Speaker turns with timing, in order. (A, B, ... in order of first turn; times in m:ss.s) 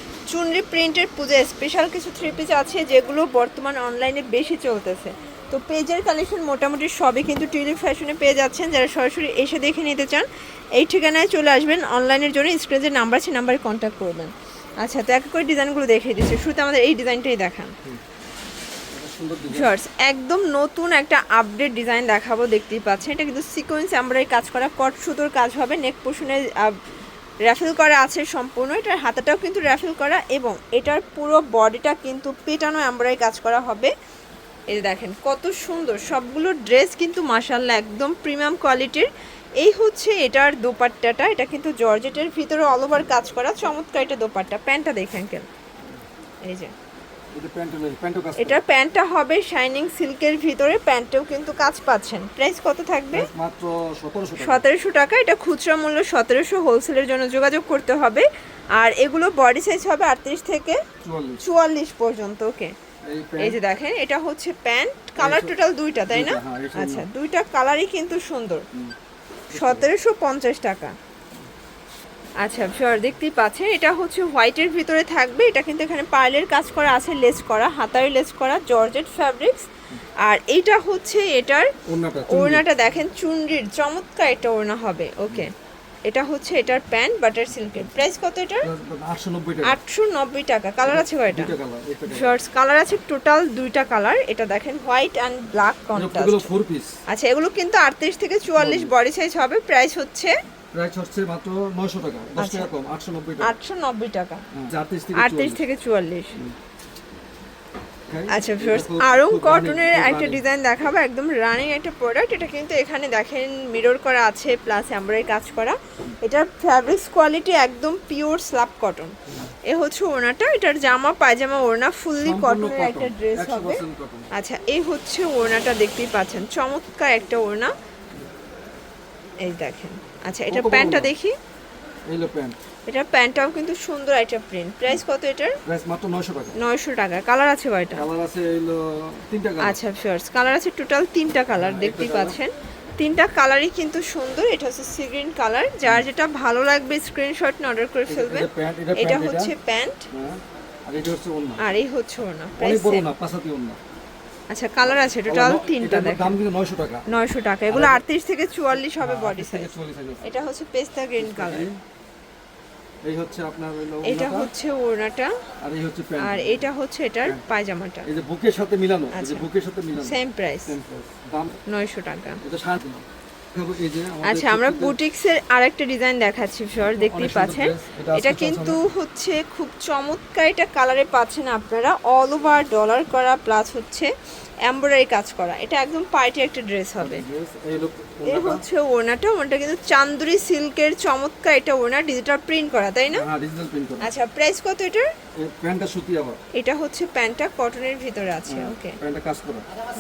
0:00.3-0:17.7 A
0:18.9-0:19.7 B
0:19.5-0:26.8 A
0:27.4-0:33.9 A
0:34.7-0:39.1 A
0:39.6-0:45.5 A
0:46.4-0:46.7 A
0:47.3-0:48.6 B
0:48.4-0:53.3 A
0:53.1-0:54.6 B
0:54.4-1:00.8 A
1:01.0-1:01.4 B
1:01.4-1:02.7 A
1:03.1-1:03.6 B
1:03.4-1:08.6 A
1:05.2-1:05.5 B
1:06.1-1:07.1 B
1:09.5-1:09.9 B
1:09.5-1:11.0 A
1:12.4-1:19.7 A
1:20.2-1:21.7 A
1:21.9-1:22.7 B
1:22.3-1:25.5 A
1:26.1-1:28.7 A
1:28.6-1:29.8 B
1:29.6-1:31.5 A
1:30.8-1:32.4 B
1:32.1-1:36.5 A
1:36.0-1:36.9 B
1:37.1-1:40.3 A
1:38.5-1:38.9 B
1:40.7-1:43.5 B
1:42.4-1:42.7 A
1:43.4-1:44.4 A
1:44.5-1:45.6 B
1:45.2-1:46.4 A
1:48.1-1:50.4 B
1:48.3-2:07.7 A
2:02.2-2:04.3 B
2:09.4-2:11.4 A
2:10.5-2:11.1 B
2:12.1-2:12.6 B
2:12.9-2:15.6 A
2:15.6-2:16.6 B
2:16.6-2:18.0 A
2:17.9-2:19.8 B
2:19.6-2:30.1 A
2:21.6-2:22.4 B
2:28.1-2:29.5 B
2:30.1-2:31.6 B
2:31.6-2:33.1 A
2:32.6-2:33.8 B
2:34.5-2:36.4 A
2:34.8-2:37.1 B
2:37.1-2:41.7 A
2:37.7-2:38.0 B
2:39.0-2:40.3 B
2:41.2-2:41.8 B
2:43.0-2:44.5 B
2:44.0-2:45.4 A
2:45.6-2:46.7 B
2:46.2-2:48.1 A
2:48.0-2:51.6 B
2:49.1-2:50.8 A
2:51.7-2:52.4 A
2:52.4-2:55.0 B
2:54.2-3:04.1 A
2:56.8-2:58.8 B
3:04.7-3:07.2 A
3:07.0-3:08.6 B
3:08.2-3:13.3 A
3:13.1-3:14.1 B
3:14.0-3:15.1 A
3:15.4-3:16.4 B
3:16.5-3:19.0 A
3:18.5-3:19.6 B